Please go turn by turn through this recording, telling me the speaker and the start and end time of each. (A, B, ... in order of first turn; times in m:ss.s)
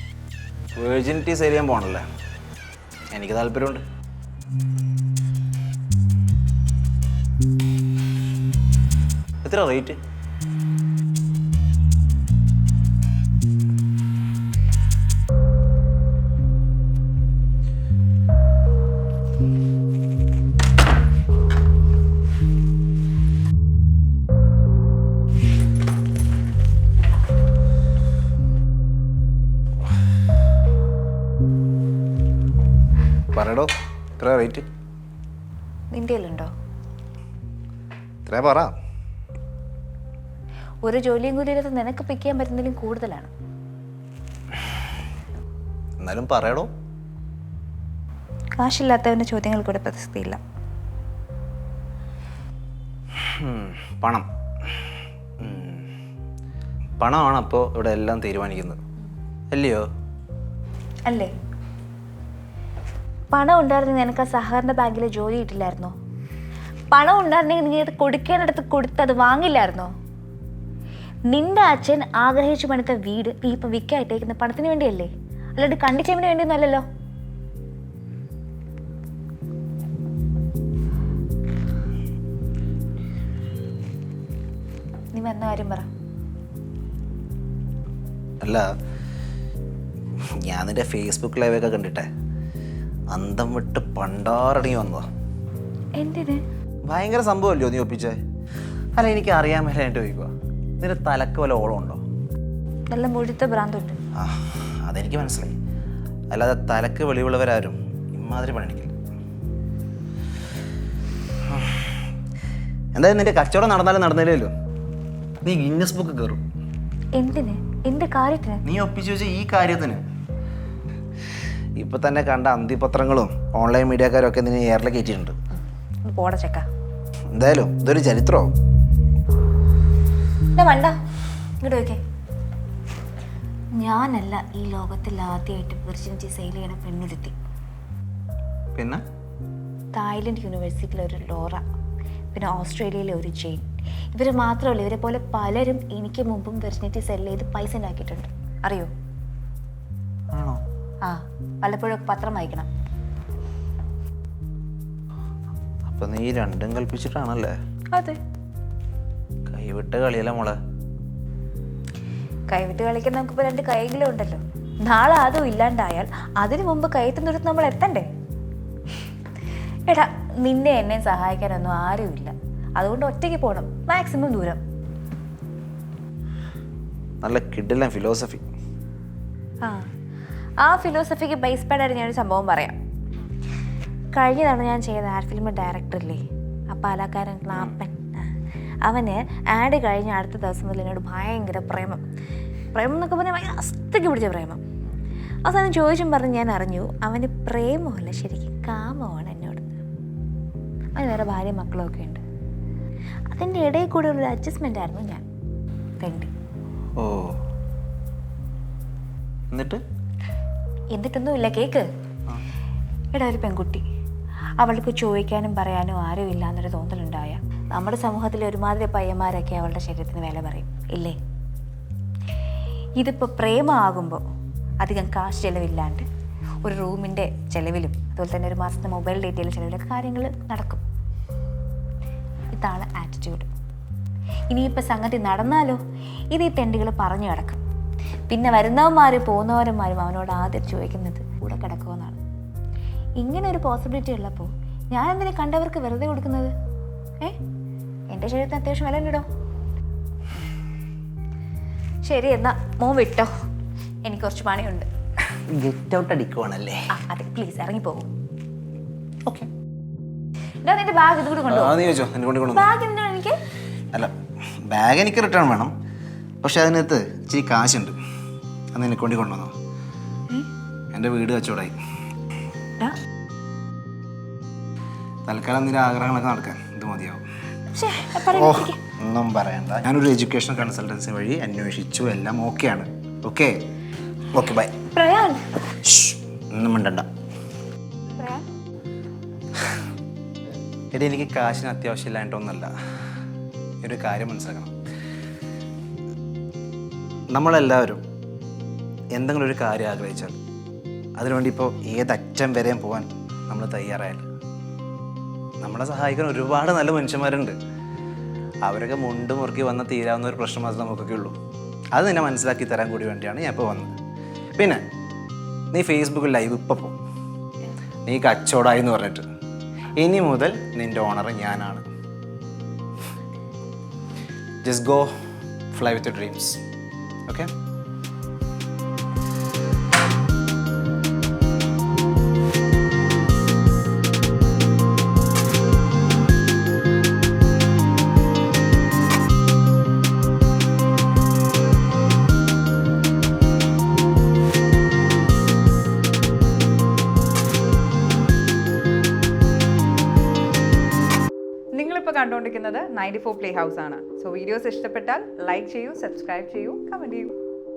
0:00.8-0:02.0 A
0:03.1-0:03.8 A
0:09.4-0:10.0 A
0:33.3-0:34.7 A
0:35.9-0:36.5 B
0:38.2-0:38.7 A
0:40.8-0:43.3 B
0:46.0-0:46.7 A
0:48.6-0:50.4 B
0:53.1-0:54.3 A
0:55.4-0:55.9 A
0:57.0-0:58.8 A
0:59.5-0:59.9 A
1:01.1-1:01.3 B
1:03.3-1:05.9 B
1:06.9-1:09.9 B
1:11.3-1:16.8 B
1:25.1-1:25.9 B
1:28.4-1:28.7 A
1:30.2-1:32.1 A
1:33.1-1:35.1 A
1:36.0-1:36.4 B
1:36.9-1:38.2 A
1:39.0-1:42.0 A
1:42.9-1:44.0 B
1:44.2-1:45.6 A
1:46.3-1:48.9 A
1:51.5-1:51.9 A
1:53.0-1:54.5 A
1:55.4-1:56.4 A
1:57.2-1:58.6 B
1:58.6-2:00.0 A
2:01.8-2:05.4 A
2:06.0-2:06.7 B
2:07.3-2:08.5 A
2:10.6-2:11.0 B
2:11.6-2:12.0 B
2:13.8-2:17.4 B
2:18.8-2:19.0 A
2:19.9-2:21.6 B
2:22.3-2:28.9 B
2:30.3-2:30.6 A
2:31.0-2:32.7 B
2:35.9-2:37.5 A
2:37.9-2:38.2 B
2:39.5-2:40.6 A
2:42.5-2:48.1 B
2:49.9-2:54.6 B
2:57.2-2:58.5 A
2:59.6-2:59.9 B
3:00.6-3:02.8 B
3:04.1-3:12.0 B
3:12.7-3:14.6 B
3:15.4-3:19.8 B
3:21.0-3:22.2 B
3:23.3-3:25.2 B
3:26.0-3:26.3 B
3:27.0-3:27.4 A
3:29.5-3:29.8 A
3:30.9-3:31.8 B
3:33.1-3:33.8 B
3:34.6-3:41.2 B
3:43.0-3:44.2 B
3:44.8-3:46.1 B
3:46.6-3:50.8 B
3:52.5-3:53.5 B
3:54.5-3:55.8 B
3:56.3-3:57.6 B
3:58.3-4:02.2 B
4:03.2-4:06.5 B
4:08.1-4:09.2 B
4:12.0-4:13.3 B
4:14.0-4:14.8 B
4:15.3-4:16.8 A
4:16.9-4:18.1 B
4:20.6-4:21.8 B
4:21.5-4:22.7 A
4:22.5-4:23.4 B
4:24.6-4:25.7 A
4:26.4-4:28.0 A
4:28.7-4:29.5 A
4:30.9-4:31.8 A
4:35.2-4:37.2 A
4:37.7-4:38.8 B
4:38.3-4:43.6 A
4:44.3-4:44.8 A
4:44.9-4:45.5 B
4:45.8-4:47.1 A
4:48.2-4:48.4 B
4:50.9-4:52.7 A
4:53.8-4:54.7 A
4:57.3-4:58.0 A
4:59.1-5:00.4 A
5:01.2-5:04.2 A
5:05.6-5:07.6 A
5:08.6-5:11.4 A
5:11.9-5:13.9 A
5:14.5-5:14.8 A
5:15.7-5:17.0 A
5:18.0-5:19.2 A
5:20.0-5:21.8 A
5:24.6-5:25.1 A
5:25.7-5:26.6 A
5:51.7-5:57.3 C